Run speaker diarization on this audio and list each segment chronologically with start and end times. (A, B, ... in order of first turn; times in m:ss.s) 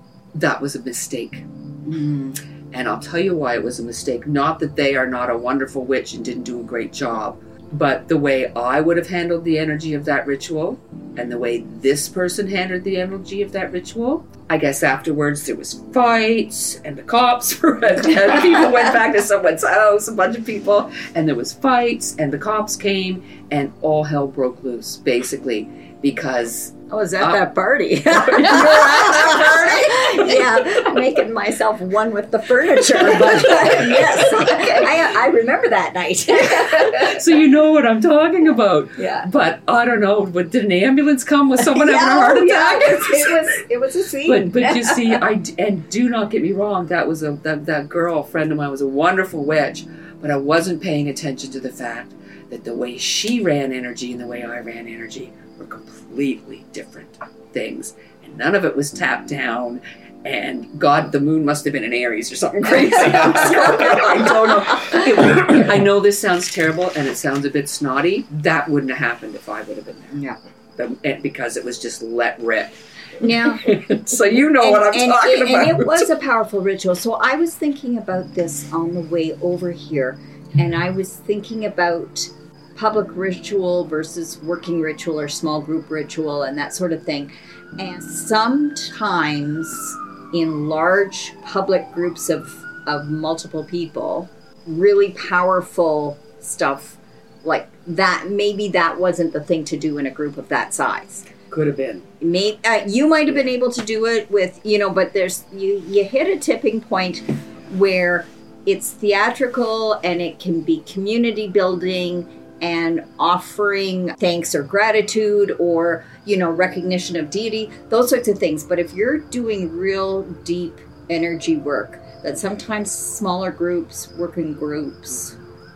0:00.3-0:27.5 A
0:26.9-0:37.1 B
0:28.1-0:30.4 A
0:33.0-0:34.9 A
0:36.7-0:43.6 A
0:39.0-0:39.3 B
0:41.7-0:45.2 B
0:44.2-1:10.2 A
1:10.8-1:12.8 A
1:13.2-1:13.7 B
1:13.6-1:16.1 A
1:14.6-1:41.3 B
1:41.5-1:42.0 A
1:42.2-2:05.4 B